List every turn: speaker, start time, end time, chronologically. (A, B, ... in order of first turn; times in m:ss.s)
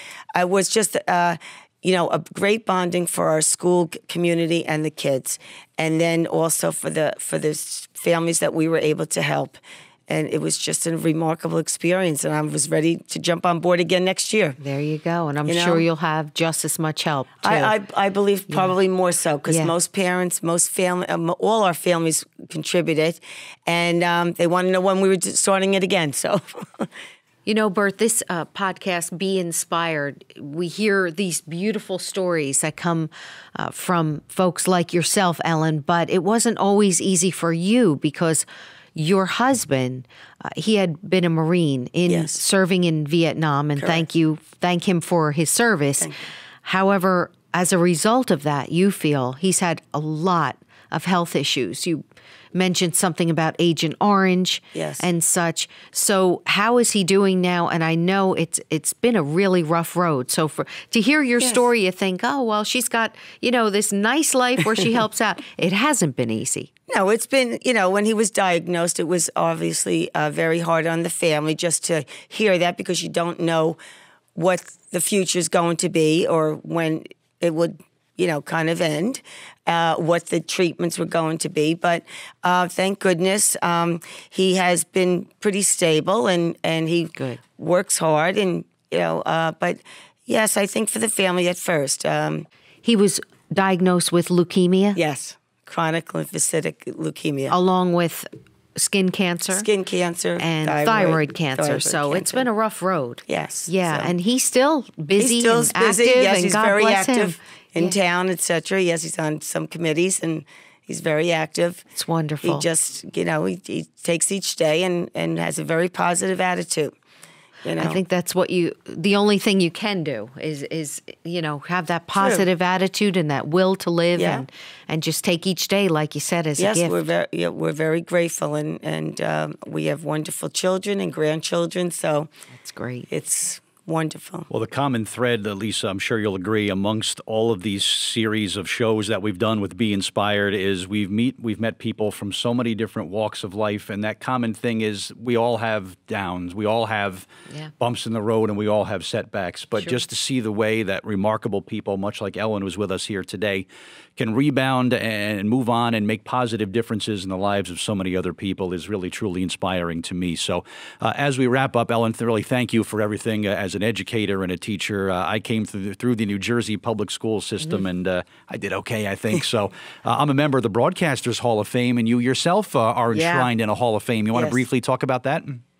0:00.4-0:14.6 A
0:14.6-0:17.8 B
0:15.4-0:15.8 A
0:17.4-0:26.9 A
0:19.5-0:19.7 B
0:27.5-0:46.1 B
0:42.1-0:42.4 A
0:43.8-0:44.1 A
0:46.0-0:46.3 A
0:46.6-1:06.7 B
0:54.7-0:55.1 A
1:01.4-1:01.7 A
1:06.9-1:13.8 A
1:14.4-1:32.5 A
1:27.2-1:27.4 B
1:32.8-1:35.0 B
1:35.0-1:37.6 A
1:37.5-1:39.7 B
1:39.5-1:42.5 A
1:40.4-1:48.0 B
1:43.3-1:44.1 A
1:45.2-1:51.8 A
1:51.9-1:52.7 B
1:52.4-1:56.9 A
1:57.6-1:58.0 A
1:57.8-2:07.0 B
2:02.2-2:02.5 A
2:04.2-2:04.5 A
2:06.6-2:12.3 A
2:12.5-2:13.1 B
2:13.1-2:14.5 A
2:14.5-2:33.7 C
2:34.2-2:55.6 C
2:53.1-2:53.5 B
2:54.3-2:54.6 A